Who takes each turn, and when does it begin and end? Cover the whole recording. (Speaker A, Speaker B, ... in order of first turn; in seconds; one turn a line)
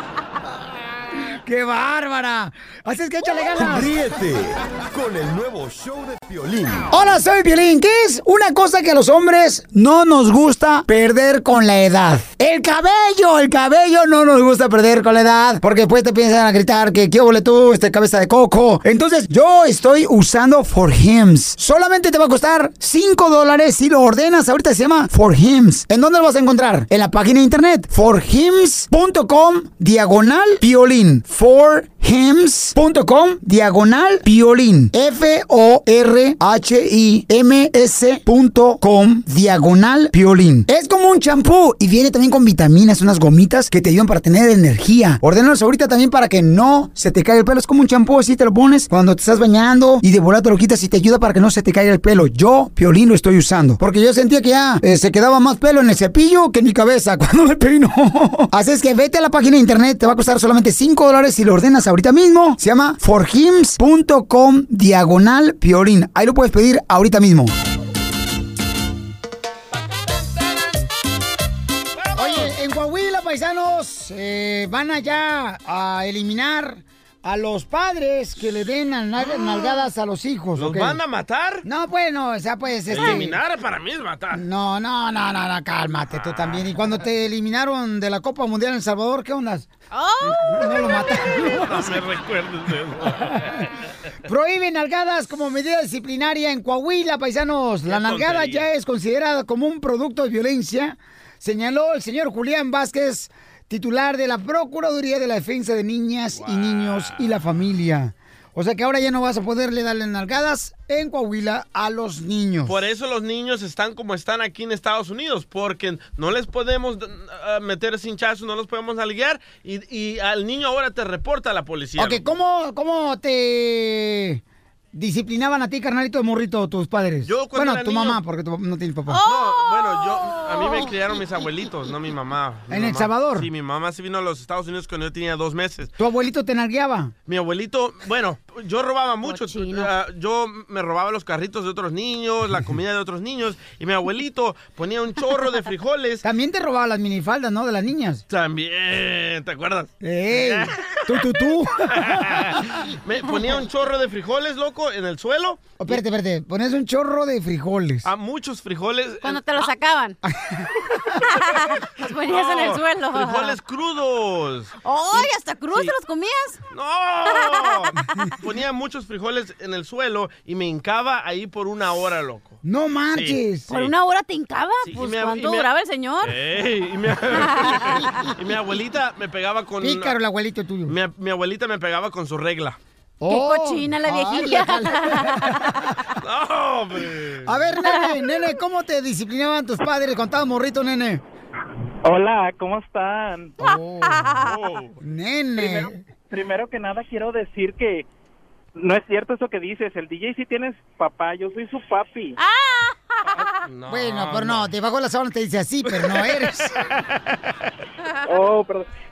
Speaker A: 1.2-3.9
Speaker B: 3.5-6.9
Speaker A: 6.9-67.5
Speaker C: 72.0-72.5
Speaker A: 72.1-81.0
Speaker C: 80.5-81.7
Speaker A: 81.6-83.4
Speaker C: 82.9-84.4
Speaker A: 84.3-89.7
Speaker D: 89.9-91.2
Speaker A: 90.4-92.0
Speaker C: 91.6-93.5
Speaker A: 93.1-93.6
Speaker A: 94.2-112.8
Speaker C: 97.8-98.7
Speaker C: 106.3-107.6
Speaker C: 112.7-122.2
Speaker A: 122.0-124.4
Speaker A: 124.9-129.2
Speaker C: 127.2-128.2
Speaker D: 129.1-131.0
Speaker C: 129.2-135.9
Speaker A: 132.7-133.5
Speaker A: 136.0-137.1
Speaker C: 137.2-146.2
Speaker D: 139.2-139.9
Speaker A: 146.2-148.2
Speaker C: 148.3-151.2
Speaker A: 150.0-152.8
Speaker C: 151.8-156.0
Speaker A: 155.8-158.1
Speaker C: 158.0-159.7
Speaker D: 159.2-160.2
Speaker A: 160.3-160.7
Speaker D: 161.2-163.6
Speaker C: 162.2-165.9
Speaker D: 164.8-166.6
Speaker C: 166.7-172.6
Speaker D: 167.2-168.0
Speaker A: 172.6-173.7
Speaker C: 173.1-173.9
Speaker D: 173.7-176.4
Speaker C: 174.8-175.7
Speaker C: 176.2-180.2
Speaker D: 177.3-178.3
Speaker A: 179.8-180.9
Speaker C: 180.8-182.8
Speaker A: 183.2-185.9
Speaker D: 183.3-185.9
Speaker C: 186.2-187.6
Speaker A: 187.4-191.2
Speaker D: 187.8-188.2
Speaker E: 192.0-193.5
Speaker A: 193.6-194.4
Speaker D: 194.0-194.7
Speaker C: 194.4-195.0
Speaker A: 195.0-196.0
Speaker E: 195.6-198.1
Speaker E: 198.8-202.4
Speaker D: 202.4-203.7
Speaker C: 203.6-204.7
Speaker A: 203.9-206.7
Speaker C: 205.9-207.0
Speaker E: 208.3-208.9